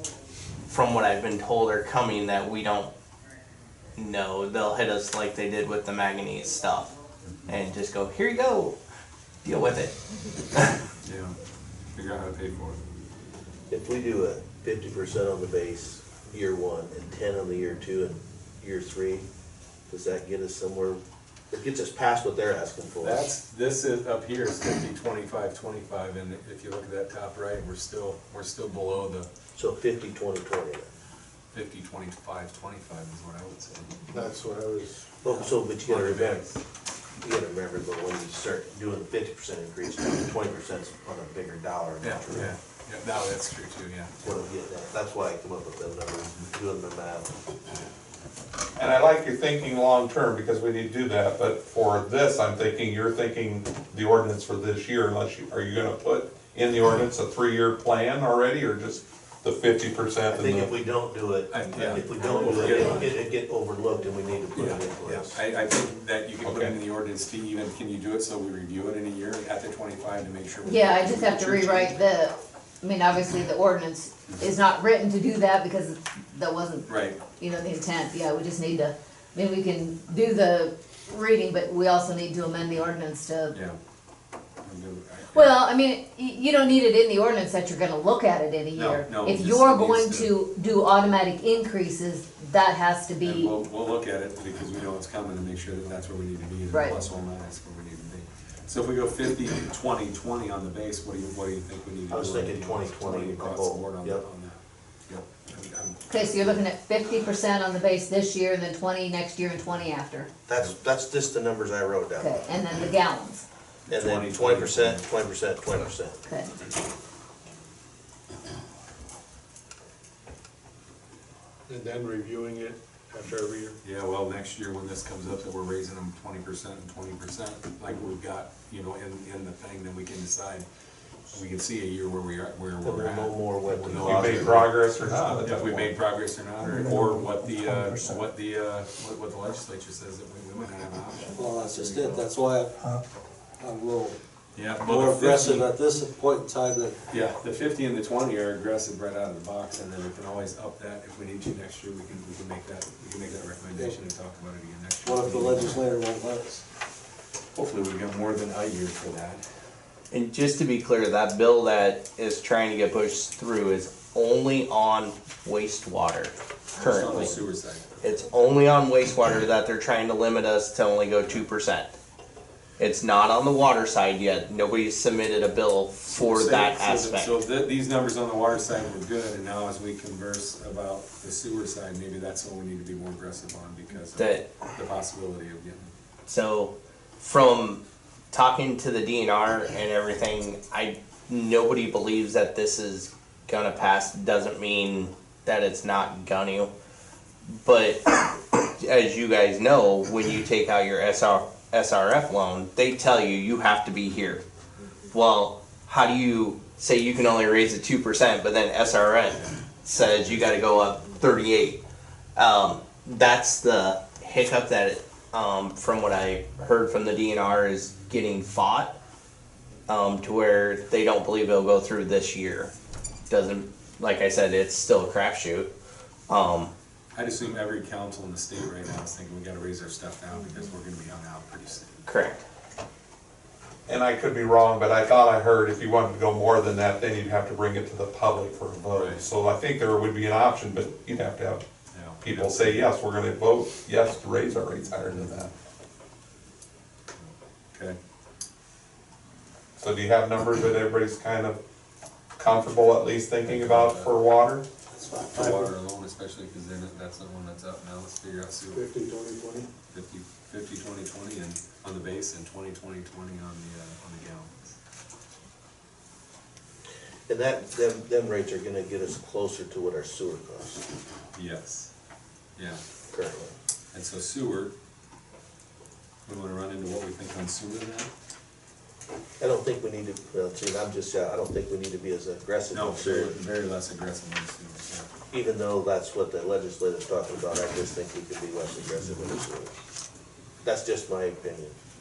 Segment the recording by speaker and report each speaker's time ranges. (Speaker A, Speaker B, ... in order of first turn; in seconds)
Speaker A: 0.7-2.9, 4.0-6.9, 7.5-8.8, 9.4-9.9, 160.1-167.4, 168.0-171.9, 172.8-177.3, 184.2-184.4, 186.3-187.8, 188.3-196.7, 197.5-204.4, 205.1-211.8, 212.3-219.0, 219.9-222.7, 223.3-225.7, 226.3-226.7, 232.0-232.4
Speaker B: 11.0-11.4, 11.9-12.8, 23.0-29.3, 31.5-34.1, 35.8-36.6, 42.0-44.1, 61.5-63.1, 64.5-72.0, 76.9-77.2, 83.5-83.8, 84.6-85.6, 88.7-90.4, 93.2-106.6, 113.9-115.0, 123.8-130.6, 131.3-134.6, 135.4-141.4, 144.5-145.7, 147.1-155.8, 157.5-159.4, 166.8-168.2, 176.1-185.9, 227.1-232.0, 238.9-239.2, 241.9-242.8, 247.2-248.0, 253.4-254.1, 255.3-258.9, 259.9-264.8, 271.3-271.9, 272.6-272.8, 273.9-274.7, 276.2-278.1, 282.7-285.1
Speaker C: 13.7-19.2, 19.9-23.3, 29.5-30.9, 35.2-36.5, 37.2-42.5, 44.2-47.4, 60.3-65.4, 102.1-104.2, 110.5-112.4, 113.9-116.2, 132.8-134.7, 267.3-270.9, 273.1-273.5, 279.4-283.4, 285.3-289.7, 290.6-291.7
Speaker D: 34.3-34.9, 121.7-123.8, 135.0-135.4, 136.6-138.2
Speaker E: 48.8-60.7, 66.4-66.8, 133.9-135.9, 233.9-241.6, 242.2-245.5, 249.8-251.6, 252.4-254.7
Speaker F: 70.7-83.5, 85.4-93.5, 96.7-96.9, 106.1-110.3, 112.2-113.4
Speaker G: 141.3-142.8, 143.6-144.2, 144.8-147.0, 155.0-156.6, 254.9-255.7, 258.7-259.7